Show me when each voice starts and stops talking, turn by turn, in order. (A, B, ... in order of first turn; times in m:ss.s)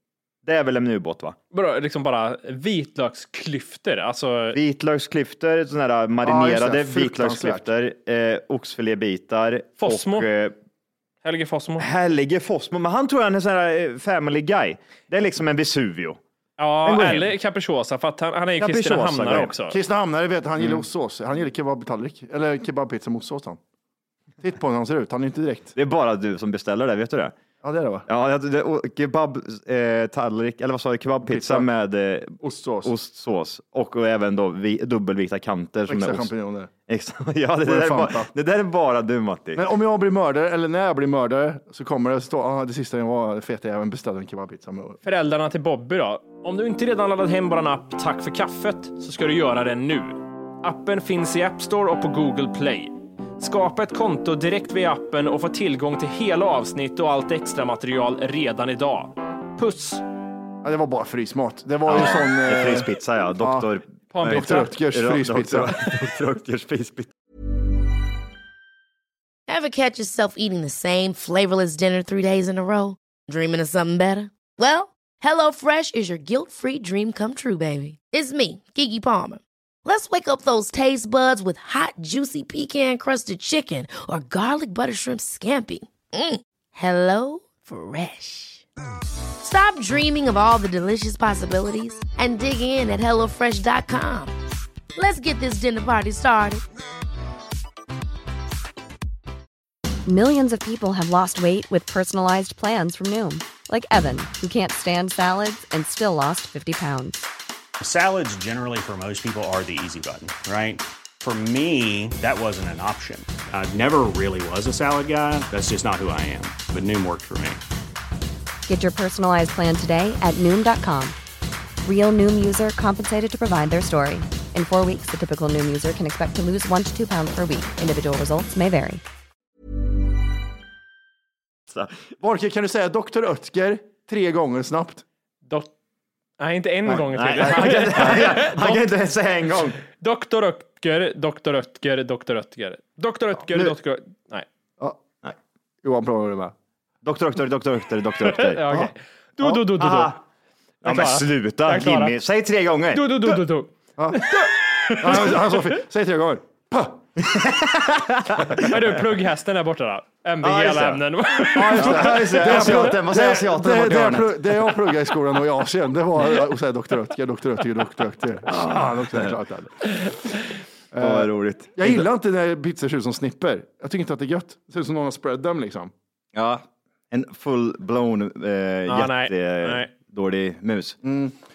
0:00.4-0:01.4 A
0:01.5-0:04.6 B
0:04.5-0:10.6 A
0:06.2-0:07.7 C
0:09.8-0:10.3 B
0:11.2-0:11.9 B
0:11.8-0:16.2 A
0:16.6-0:19.8 B
0:16.8-0:17.3 A
0:18.6-0:19.5 A
0:19.7-0:23.6 C
0:24.4-0:25.7 C
0:25.8-0:27.4 A
0:27.6-0:28.1 C
0:28.1-0:36.3 A
0:31.2-0:31.7 C
0:32.4-0:32.9 C
0:35.9-0:36.7 C
0:36.9-0:39.6 A
0:37.6-0:38.3 C
0:39.6-0:45.0 C
0:45.0-1:00.0 B
1:00.6-1:03.7 C
1:01.9-1:07.1 A
1:04.1-1:04.7 B
1:04.2-1:05.8 C
1:09.5-1:28.6 D
1:29.4-1:34.3 D
1:35.0-1:36.6 D
1:40.1-1:47.3 E
1:47.8-1:57.6 F
1:58.7-2:01.2 E
2:01.8-2:09.0 E
2:12.2-2:15.0 C
2:15.4-2:15.7 B
2:16.4-2:18.9 B
2:17.1-2:19.8 A
2:20.0-2:24.5 B
2:23.5-2:23.8 A
2:25.8-2:26.5 C
2:27.0-2:28.9 A
2:28.3-2:30.2 B
2:29.4-2:30.2 A
2:30.8-2:33.4 A
2:30.8-2:32.2 B
2:32.9-2:35.4 B
2:34.0-2:34.4 C
2:35.0-2:37.0 C
2:37.2-2:38.8 A
2:38.6-2:42.8 B
2:40.4-2:41.1 A
2:41.5-2:50.2 C
2:41.7-2:44.7 A
2:48.5-2:49.3 A
2:50.9-2:55.9 C
2:51.0-2:52.1 A
2:56.3-3:01.0 A
2:58.9-2:59.9 B
3:01.0-3:01.4 C